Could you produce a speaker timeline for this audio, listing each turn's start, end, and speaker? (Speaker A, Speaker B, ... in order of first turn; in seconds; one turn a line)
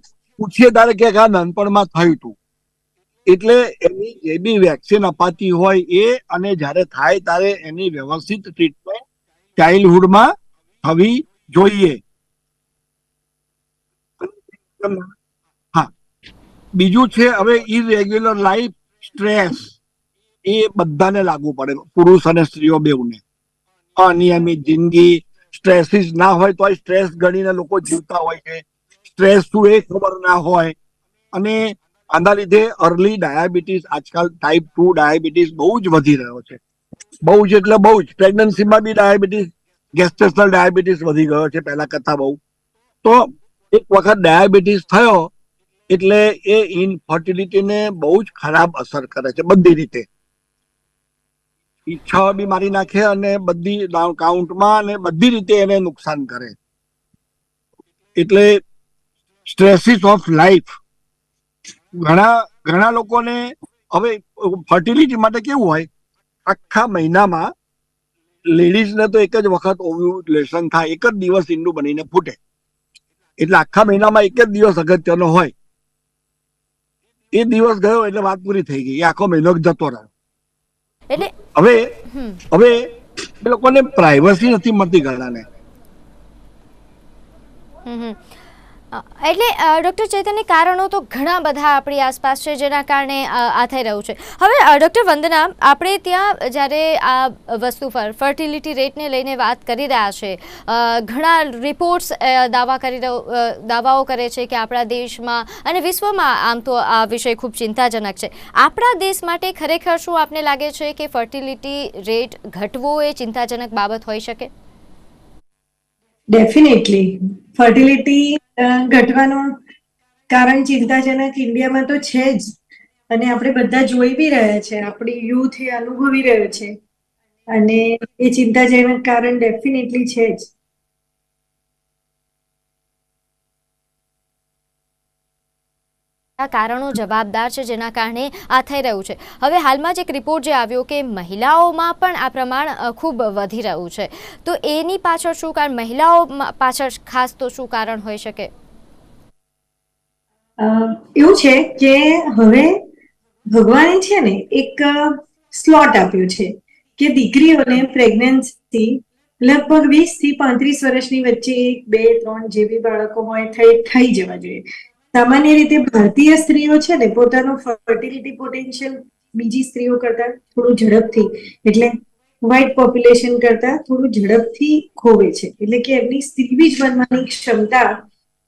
Speaker A: 0.4-2.4
Speaker A: 3.3-9.0
Speaker A: 9.6-10.3
Speaker A: 10.8-12.0
Speaker A: 14.2-15.1
Speaker A: 16.8-19.8
Speaker A: 20.4-23.2
Speaker A: 24.0-30.7
Speaker A: 31.3-36.6
Speaker A: 37.2-42.4
Speaker A: 43.0-45.3
Speaker A: 45.9-50.0
Speaker A: 51.9-56.5
Speaker A: 58.2-58.6
Speaker A: 59.5-60.7
Speaker A: 62.0-65.9
Speaker A: 66.5-67.5
Speaker A: 68.5-72.4
Speaker A: 73.4-75.5
Speaker A: 77.3-80.1
Speaker A: 81.3-81.8
Speaker B: 82.1-82.4
Speaker A: 82.5-82.8
Speaker A: 83.4-85.4
Speaker B: 87.8-88.2
Speaker B: 88.9-114.5
Speaker C: 116.3-119.5
Speaker C: 120.3-122.5
Speaker C: 123.1-126.8
Speaker C: 127.5-130.5
Speaker B: 136.4-148.5
Speaker C: 150.6-152.7
Speaker C: 153.5-164.6
Speaker C: 165.1-177.9